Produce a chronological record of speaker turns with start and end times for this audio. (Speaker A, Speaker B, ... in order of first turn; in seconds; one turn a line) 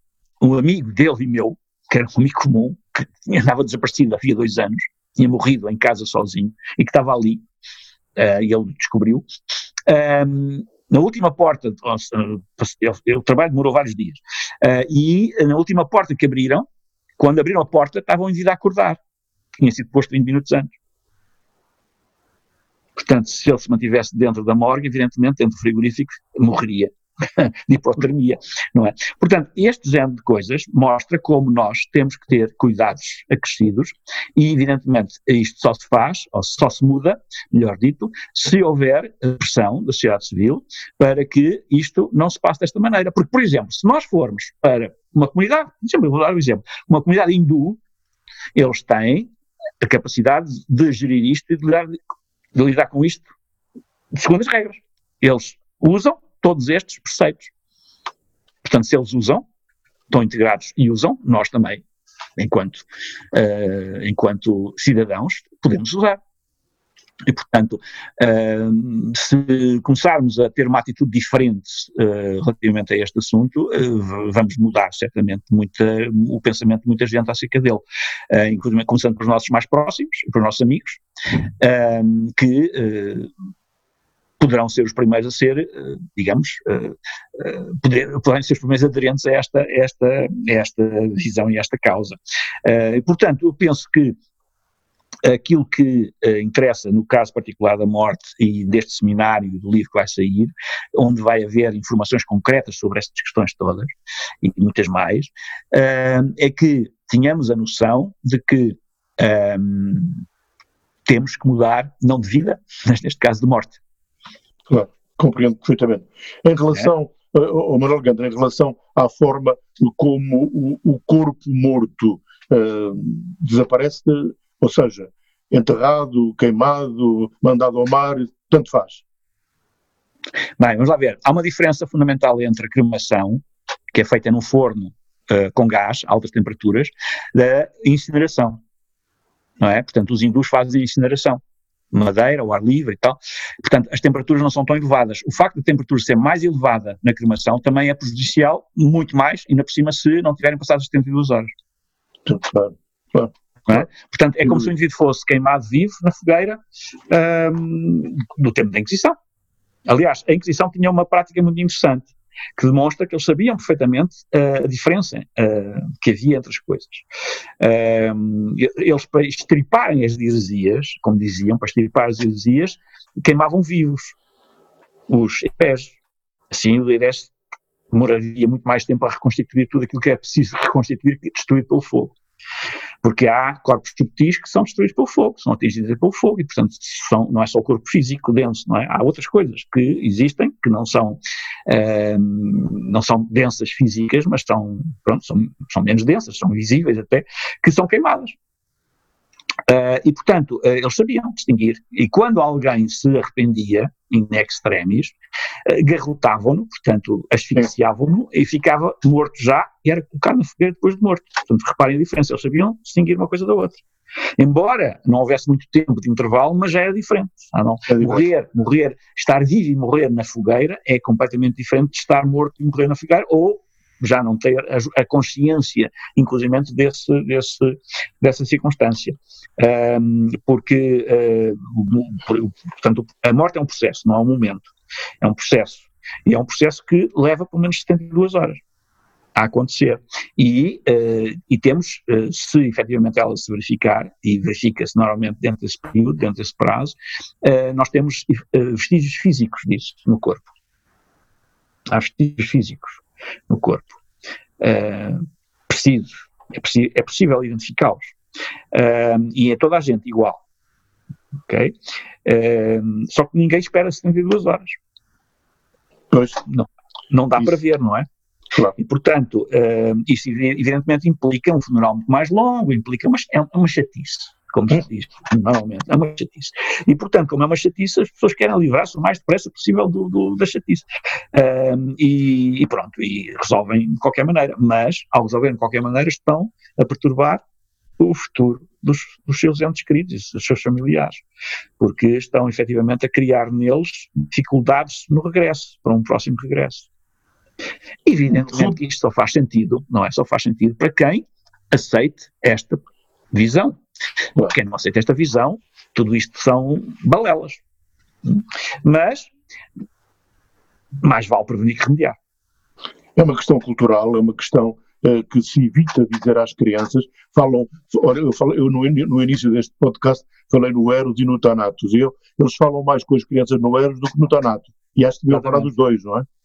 Speaker A: 0.4-7.4
Speaker A: 8.2-16.7
Speaker A: 17.2-19.0
Speaker A: 19.6-20.7
Speaker A: 23.0-47.8
Speaker A: 48.5-49.3
Speaker A: 49.8-52.0
Speaker A: 52.5-53.3
Speaker A: 54.1-57.5
Speaker A: 58.6-59.5
Speaker A: 60.1-61.8
Speaker A: 62.4-66.2
Speaker A: 67.3-81.0
Speaker A: 81.6-83.3
Speaker A: 84.4-94.2
Speaker A: 95.2-103.9
Speaker A: 104.4-110.2
Speaker A: 111.1-113.8
Speaker B: 114.7-129.0
Speaker A: 130.6-138.6
Speaker A: 139.6-141.4
Speaker A: 141.9-151.5
Speaker B: 152.3-153.3
Speaker A: 153.7-156.6
Speaker A: 157.1-159.2
Speaker A: 159.9-167.1
Speaker A: 167.6-174.2
Speaker A: 175.1-176.0
Speaker A: 176.5-177.3
Speaker A: 177.9-182.2
Speaker A: 183.0-198.4
Speaker A: 199.7-213.8
Speaker A: 214.4-238.6
Speaker B: 217.9-218.3
Speaker A: 239.4-250.5
Speaker A: 251.9-254.0
Speaker A: 254.6-258.1
Speaker A: 258.7-260.4
Speaker A: 261.5-261.7
Speaker A: 262.2-264.8
Speaker B: 266.1-266.4
Speaker A: 266.5-268.1
Speaker A: 268.8-287.4
Speaker A: 288.0-291.2
Speaker A: 291.8-296.9
Speaker A: 298.1-302.8
Speaker B: 298.5-298.7
Speaker A: 303.3-303.8
Speaker A: 304.4-307.6
Speaker A: 308.2-309.3
Speaker A: 311.0-312.2
Speaker B: 313.2-326.3
Speaker A: 325.3-325.7